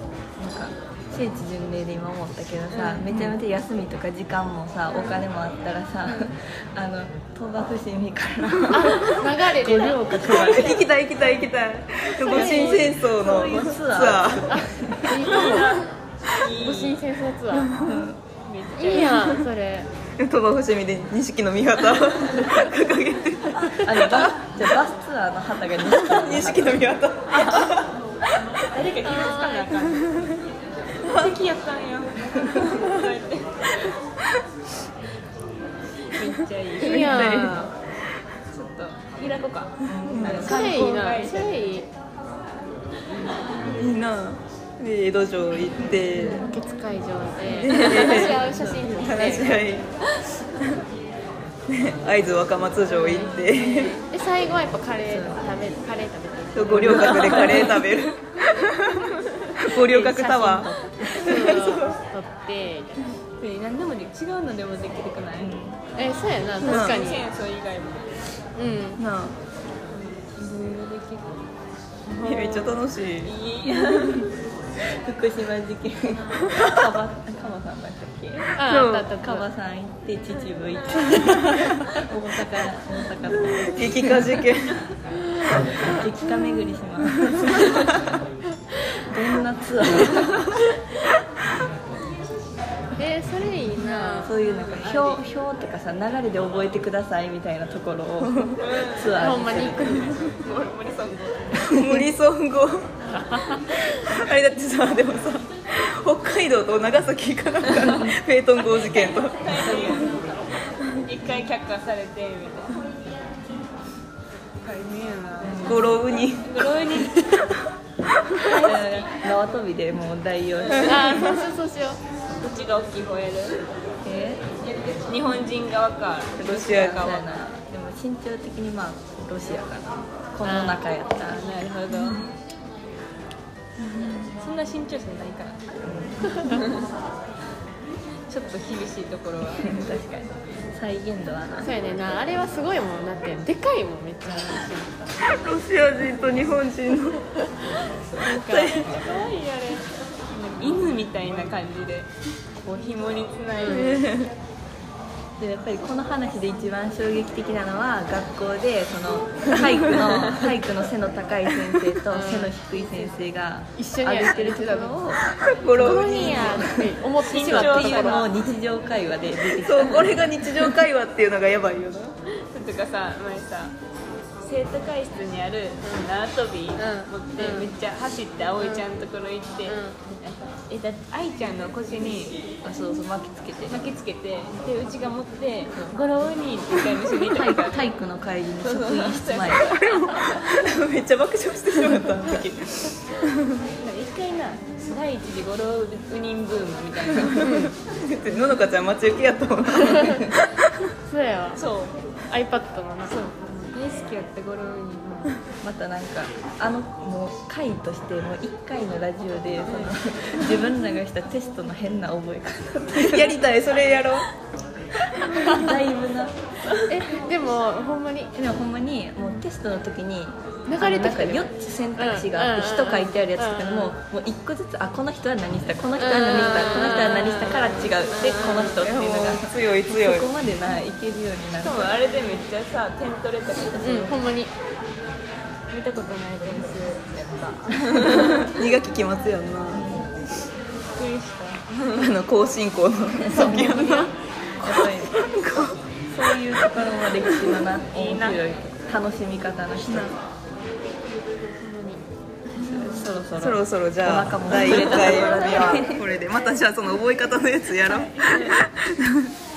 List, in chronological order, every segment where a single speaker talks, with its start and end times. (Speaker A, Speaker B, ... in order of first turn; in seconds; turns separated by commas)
Speaker A: 0.4-10.8, Speaker B: 2.7-3.3, Speaker C: 8.7-9.0, Speaker D: 8.7-10.6, Speaker C: 10.3-14.7, Speaker B: 10.4-10.8, Speaker D: 12.2-12.9, Speaker B: 12.3-13.8, Speaker A: 12.4-15.2, Speaker D: 14.5-15.8, Speaker B: 15.1-17.0, Speaker D: 16.6-17.7, Speaker C: 17.6-18.1, Speaker A: 17.8-18.2, Speaker B: 18.4-19.4, Speaker D: 18.8-19.9, Speaker C: 20.2-24.5, Speaker A: 23.7-26.9, Speaker C: 25.8-27.9, Speaker B: 27.4-27.7, Speaker B: 28.7-30.4, Speaker D: 29.0-29.9, Speaker B: 31.0-33.9, Speaker B: 36.1-37.6, Speaker C: 36.8-37.8, Speaker D: 36.8-37.7, Speaker B: 38.5-41.9, Speaker A: 39.9-40.6, Speaker C: 40.0-40.5, Speaker D: 40.4-41.9, Speaker B: 43.1-43.6, Speaker C: 43.7-46.5, Speaker D: 46.2-49.6, Speaker C: 47.5-49.9, Speaker B: 47.7-48.1, Speaker A: 48.3-49.1, Speaker C: 51.7-54.0, Speaker D: 52.9-53.5, Speaker B: 53.2-54.0, Speaker D: 54.1-57.7, Speaker A: 55.0-55.4, Speaker C: 56.5-62.0, Speaker A: 56.7-57.1, Speaker B: 57.0-58.0, Speaker D: 59.8-62.9, Speaker A: 59.9-61.5, Speaker B: 63.4-65.5, Speaker A: 65.4-65.8, Speaker D: 66.0-67.2, Speaker B: 66.6-68.2, Speaker C: 66.6-67.0, Speaker D: 68.6-69.0, Speaker C: 69.0-69.4, Speaker B: 69.9-71.4, Speaker B: 72.0-74.4, Speaker C: 72.2-73.3, Speaker A: 74.9-84.1, Speaker D: 78.6-79.4, Speaker C: 78.7-79.1, Speaker C: 83.6-84.8, Speaker A: 85.8-88.1, Speaker A: 89.1-90.5, Speaker D: 93.0-94.4, Speaker B: 94.0-95.2, Speaker A: 94.2-100.3, Speaker C: 98.3-98.5, Speaker B: 98.6-101.7, Speaker D: 99.1-100.1, Speaker A: 101.6-102.1, Speaker C: 101.7-102.9, Speaker D: 103.1-103.7, Speaker C: 103.9-110.0, Speaker B: 108.8-112.9, Speaker B: 114.6-117.5, Speaker A: 115.4-115.9, Speaker C: 115.7-116.7, Speaker B: 118.4-119.1, Speaker A: 118.5-121.3, Speaker B: 120.6-121.4, Speaker D: 120.8-122.0, Speaker B: 122.4-123.6, Speaker A: 124.0-124.5, Speaker B: 124.8-127.3, Speaker C: 126.4-127.0, Speaker A: 126.6-132.2, Speaker D: 130.4-130.8, Speaker B: 131.2-132.2, Speaker B: 134.3-135.8, Speaker A: 135.8-136.4, Speaker B: 136.3-136.9, Speaker B: 138.3-139.8, Speaker A: 139.6-141.7, Speaker D: 141.6-144.9, Speaker C: 145.3-147.4, Speaker D: 148.2-148.8, Speaker C: 148.2-148.9, Speaker B: 148.6-152.1, Speaker B: 152.6-154.1, Speaker D: 153.6-154.0, Speaker C: 153.7-154.3, Speaker A: 155.4-165.2, Speaker C: 161.6-162.0, Speaker D: 162.1-162.6, Speaker D: 163.8-165.0, Speaker C: 165.4-166.8, Speaker D: 165.8-168.3, Speaker A: 166.0-166.8, Speaker B: 167.2-168.4, Speaker A: 167.4-170.3, Speaker C: 169.5-172.1, Speaker B: 172.3-173.8, Speaker B: 174.4-182.4, Speaker D: 175.8-176.1, Speaker D: 176.8-177.7, Speaker D: 179.7-180.0, Speaker A: 182.6-183.8, Speaker B: 183.7-187.9, Speaker A: 187.2-189.8, Speaker B: 188.6-190.4, Speaker C: 189.8-193.6, Speaker B: 193.8-197.5, Speaker C: 197.1-200.6, Speaker D: 197.4-197.7, Speaker D: 201.1-201.6, Speaker B: 201.6-202.0, Speaker D: 202.3-203.3, Speaker B: 203.1-205.3, Speaker A: 205.6-213.4, Speaker B: 209.7-209.9, Speaker C: 213.0-214.3, Speaker C: 215.2-215.7, Speaker A: 215.4-216.4, Speaker D: 216.9-218.3, Speaker A: 218.3-231.9, Speaker D: 220.7-223.9, Speaker D: 226.0-227.9, Speaker B: 228.1-228.9, Speaker C: 228.6-230.3, Speaker B: 231.6-234.2, Speaker D: 233.8-234.5, Speaker B: 235.7-238.5, Speaker C: 238.0-239.9, Speaker A: 239.7-240.1, Speaker B: 240.9-242.1, Speaker C: 241.9-245.8, Speaker A: 243.3-243.9, Speaker D: 243.3-244.1, Speaker A: 244.6-245.2, Speaker A: 246.1-250.1, Speaker B: 247.9-248.4, Speaker C: 249.8-250.1, Speaker B: 251.6-253.1, Speaker A: 252.5-255.9, Speaker C: 253.4-259.3, Speaker B: 254.6-255.9, Speaker B: 257.8-258.6